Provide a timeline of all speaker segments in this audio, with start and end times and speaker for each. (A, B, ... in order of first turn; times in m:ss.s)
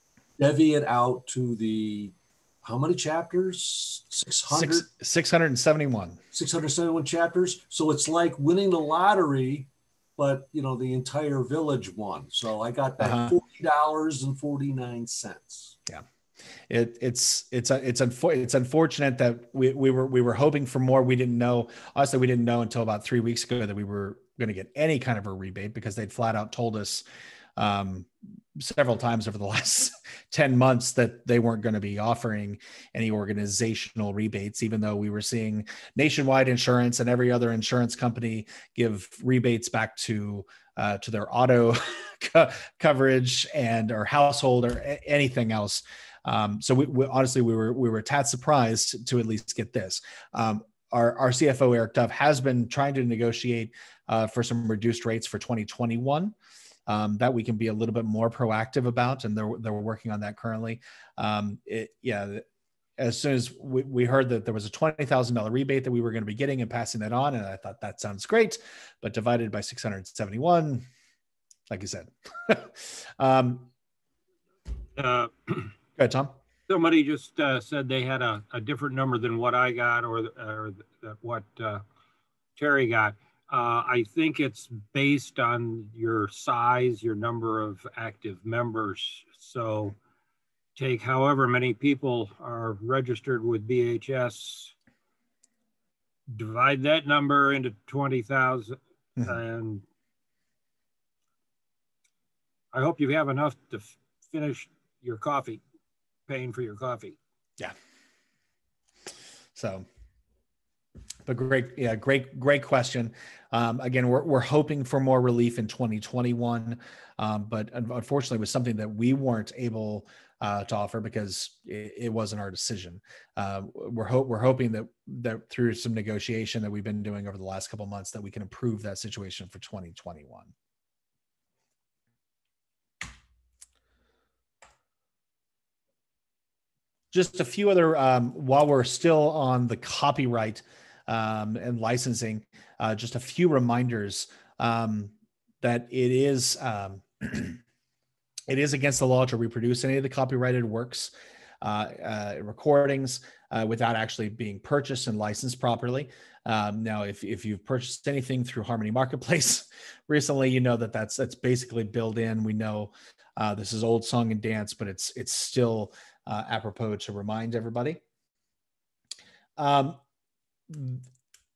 0:00.4-0:04.9 A
0:04.5-0:06.2 B
0:06.3-0:15.7 A
0:13.0-0:13.3 B
0:16.7-0:27.0 B
0:27.6-0:56.3 B
0:56.9-1:02.4 B
1:03.0-1:10.8 B
1:11.7-1:13.7 B
1:15.0-1:15.7 C
1:16.0-1:16.4 B
1:16.7-1:21.8 C
1:22.6-1:30.0 C
1:30.8-1:34.7 C
1:36.3-1:39.8 C
1:42.7-1:45.6 C
1:46.3-1:47.2 C
1:49.6-1:49.8 B
1:51.2-2:10.5 B
2:17.1-2:27.6 B
2:28.5-2:48.0 B
2:49.6-2:50.0 B
2:50.7-2:51.0 B